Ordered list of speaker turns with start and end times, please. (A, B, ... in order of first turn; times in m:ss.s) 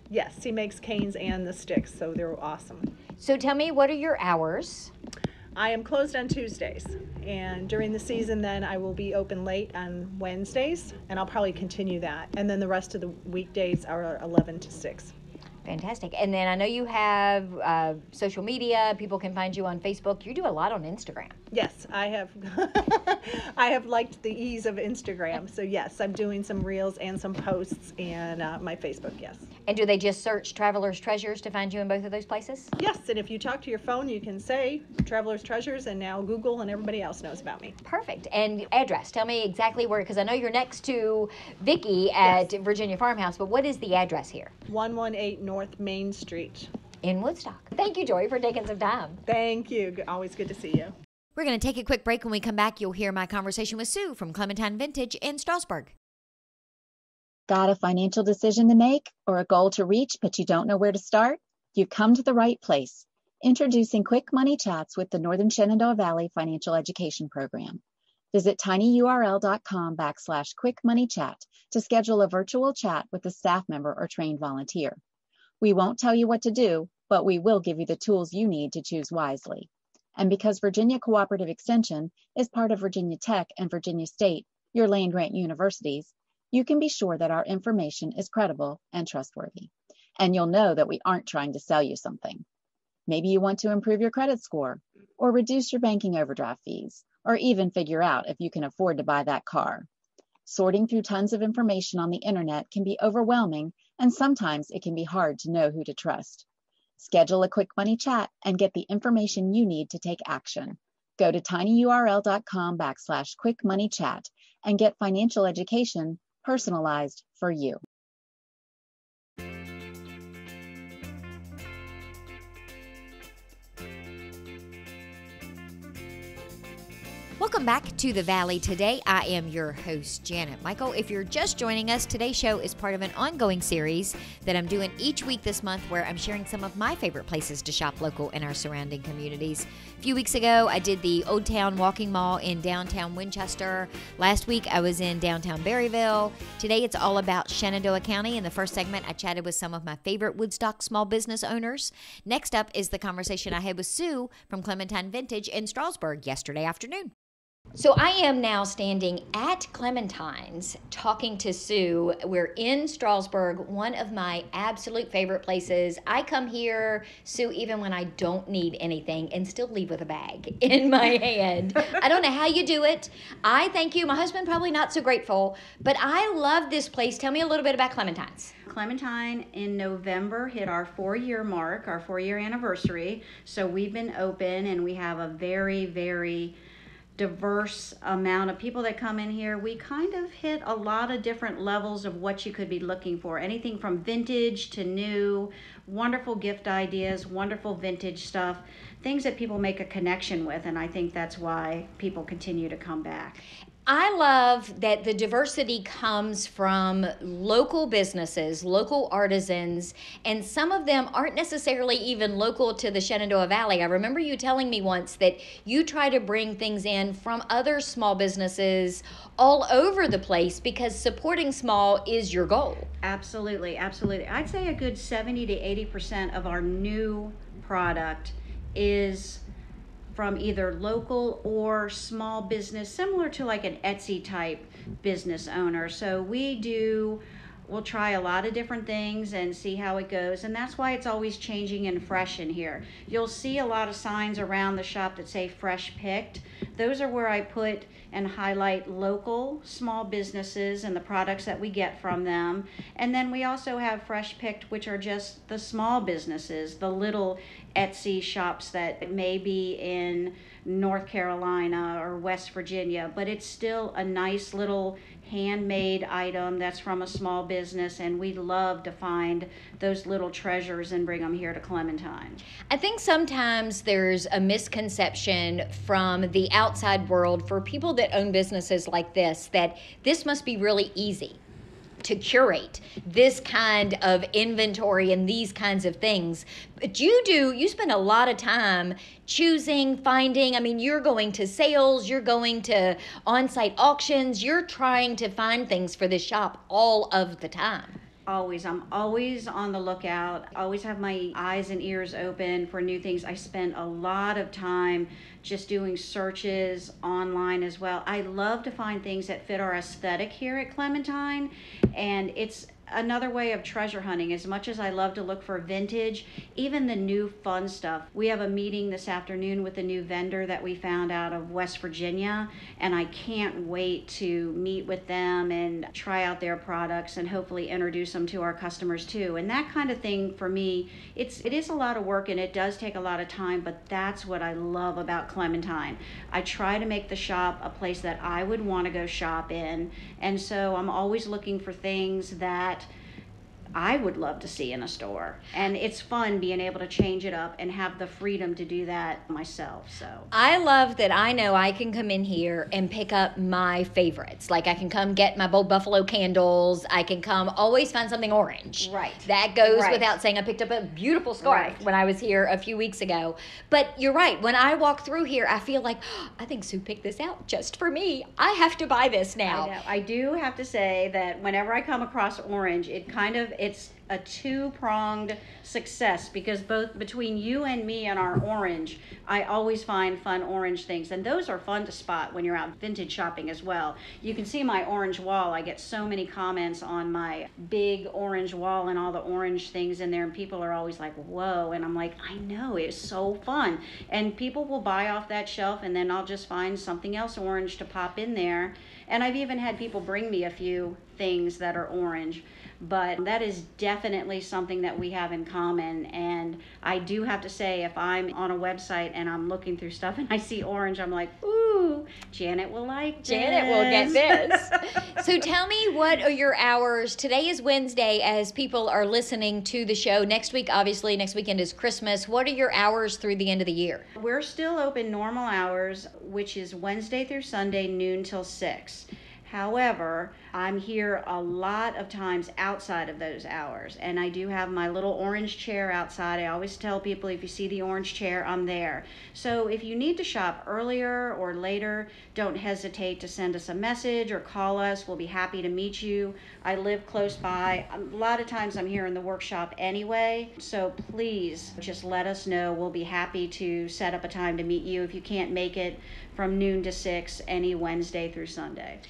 0:00.1-0:02.9 A
0:03.2-0:04.9 B
0:05.5-0:15.1 A
0:15.6-0:21.4 B
0:21.5-0:29.5 A
0:29.7-0:32.7 B
0:32.8-0:37.7 A
0:37.8-0:44.5 B
0:44.7-0:46.7 A
0:47.0-0:49.2 B
0:49.2-0:50.9 A
0:51.4-0:55.9 B
0:57.5-1:07.8 C
1:08.3-1:15.0 C
1:15.6-1:32.4 C
1:33.1-1:39.9 C
1:40.4-1:46.4 C
1:47.0-1:57.8 C
2:07.4-2:37.1 B
2:37.8-2:58.5 B
2:58.7-3:06.6 D
3:07.2-3:23.4 D
3:23.9-3:42.9 B
3:43.0-3:49.4 D
3:50.1-4:32.4 D
4:32.7-4:41.4 B
4:42.0-4:57.9 B
4:58.3-5:42.9 D
5:43.7-5:50.3 D
5:50.3-6:09.7 B
5:58.8-6:00.1 D
6:01.4-6:01.8 D
6:09.4-6:54.6 D
6:53.2-7:04.0 B
7:04.2-7:39.0 D